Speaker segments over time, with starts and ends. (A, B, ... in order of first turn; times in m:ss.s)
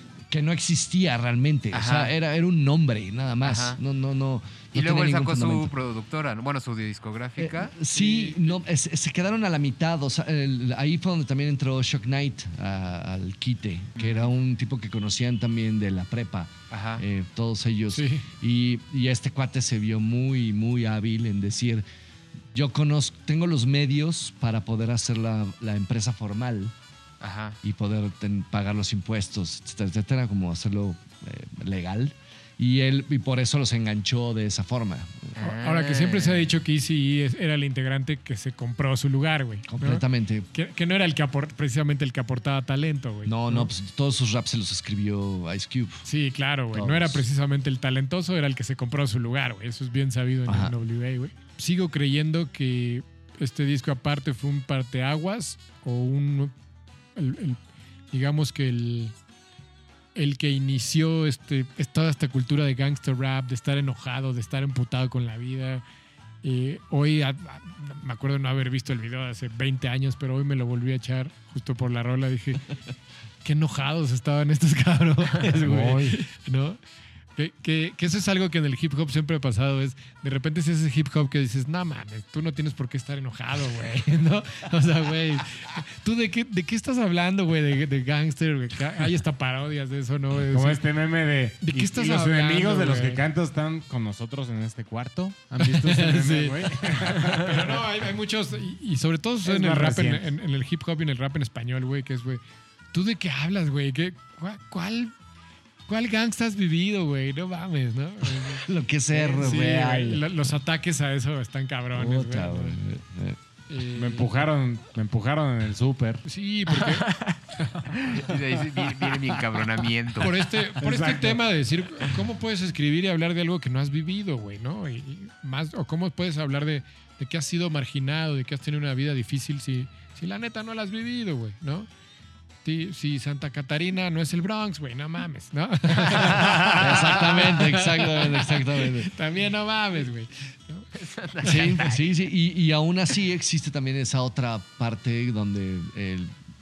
0:00.3-0:05.7 A
0:01.7-0:02.2 B
0:03.4-0:03.8 B
0:04.7-0:07.8 B
0:07.4-0:21.8 A
0:08.0-0:08.3 C
0:14.0-0:14.3 B
0:16.7-0:17.0 B
0:17.9-0:18.3 C
0:22.5-0:26.7 A
0:27.2-0:27.6 B
0:27.6-0:35.4 A
0:35.4-0:36.5 B
0:35.4-0:43.7 C
0:39.7-0:40.5 A
0:43.2-0:46.1 A
0:46.1-0:56.5 C
0:46.7-0:47.2 A
0:50.5-0:50.8 A
0:57.2-0:57.6 C
0:58.1-0:59.1 C
1:00.2-1:05.8 C
1:06.4-1:12.7 C
1:13.4-1:16.8 C
1:15.6-1:16.2 D
1:17.4-1:30.9 C
1:30.5-1:37.8 D
1:31.6-1:33.2 C
1:35.6-1:42.4 C
1:39.4-1:40.3 D
1:42.9-1:45.1 C
1:45.9-1:52.8 C
1:48.5-1:50.2 A
1:51.9-1:53.4 A
1:53.7-1:54.4 C
1:54.0-1:56.2 D
1:56.2-1:57.1 C
1:56.8-1:57.4 B
1:57.9-2:00.4 B
2:00.2-2:11.9 C
2:00.8-2:01.4 D
2:12.6-2:20.9 C
2:16.1-2:19.1 A
2:21.0-2:22.1 B
2:21.4-2:26.3 A